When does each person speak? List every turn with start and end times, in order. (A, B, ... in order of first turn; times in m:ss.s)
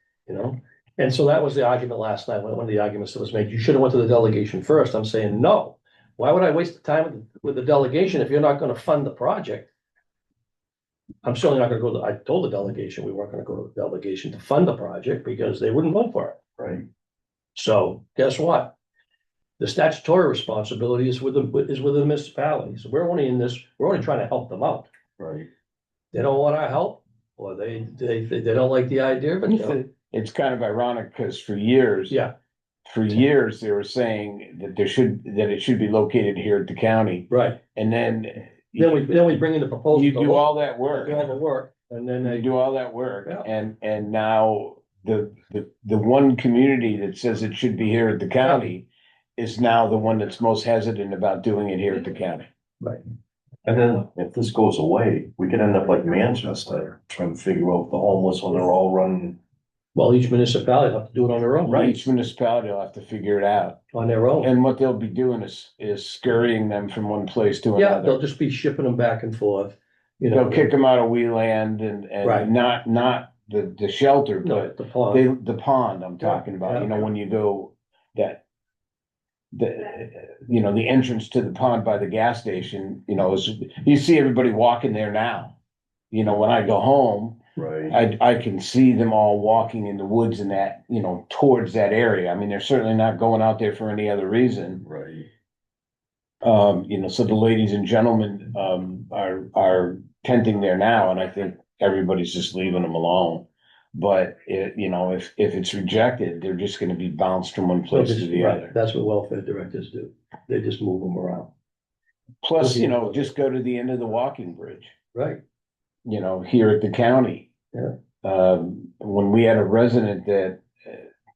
0:00.3-0:09.7 A
0:11.2-0:16.4 A
0:16.6-0:16.8 B
0:17.6-0:18.8 A
0:19.6-0:24.9 A
0:25.2-0:25.5 B
0:26.1-0:29.8 A
0:29.5-0:32.2 C
0:32.9-0:38.9 C
0:37.3-0:37.6 A
0:38.8-0:42.5 A
0:39.9-0:41.3 C
0:42.2-0:52.5 C
0:53.6-0:59.4 B
1:00.0-1:02.1 A
1:01.6-1:03.8 C
1:03.9-1:04.5 A
1:04.4-1:08.2 C
1:07.8-1:10.6 A
1:10.3-1:18.4 C
1:12.2-1:12.5 A
1:14.4-1:15.2 A
1:16.2-1:17.1 A
1:19.5-1:25.6 C
1:26.1-1:27.4 C
1:27.6-1:28.0 B
1:27.9-1:34.8 C
1:34.8-1:35.3 B
1:36.4-1:48.7 C
1:47.9-1:51.5 A
1:52.4-1:54.9 C
1:52.6-1:53.0 A
1:55.1-1:55.4 A
1:56.1-1:57.5 C
1:58.2-2:01.1 C